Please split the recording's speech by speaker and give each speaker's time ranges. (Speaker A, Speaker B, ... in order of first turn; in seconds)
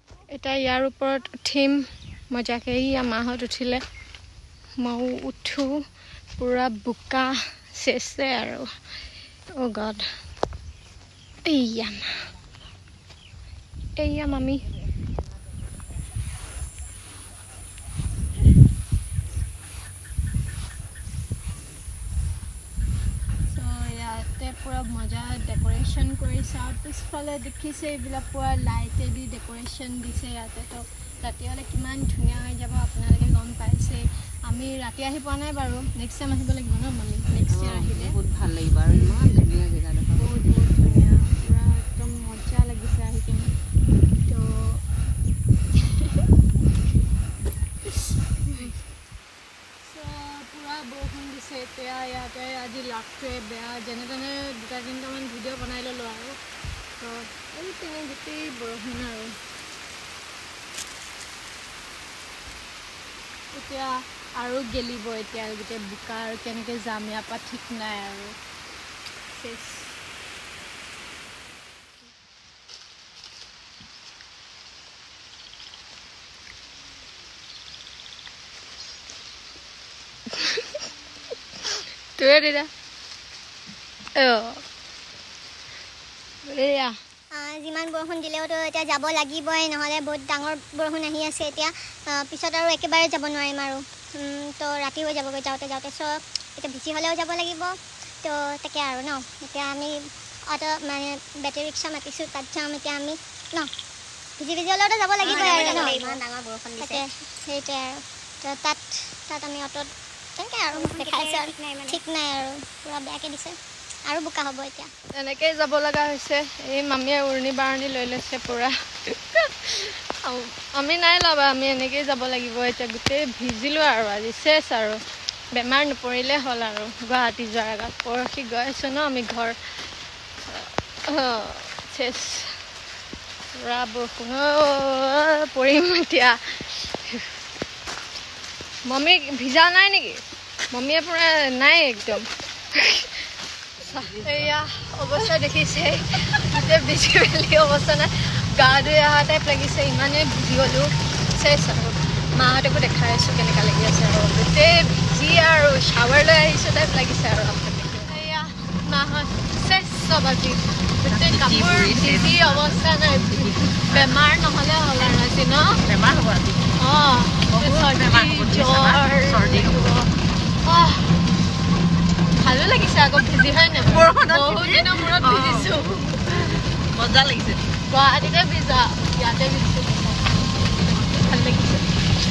Speaker A: 0.3-3.8, 4.8-5.8, 6.4-8.7, 9.5-10.1, 11.4-12.1, 14.0-14.7, 23.5-38.1, 38.9-39.4, 40.2-43.5, 44.2-44.8, 45.9-46.2, 49.8-56.4, 57.0-59.4, 63.5-68.4, 69.3-70.0, 80.4-80.6, 82.2-82.7, 84.2-84.6, 86.5-87.0, 115.1-125.0, 125.5-129.6, 130.5-132.6, 133.6-137.3, 138.8-143.2, 143.8-165.8, 166.8-170.1, 170.6-171.1, 172.3-176.6, 177.9-181.9
Speaker B: 37.5-40.4, 161.0-164.1, 165.8-166.7, 167.5-170.0, 173.8-177.7
Speaker C: 87.3-97.7, 98.2-100.0, 100.5-103.7, 104.4-106.2, 106.8-113.5, 114.1-114.9
Speaker D: 105.2-107.0, 110.7-112.0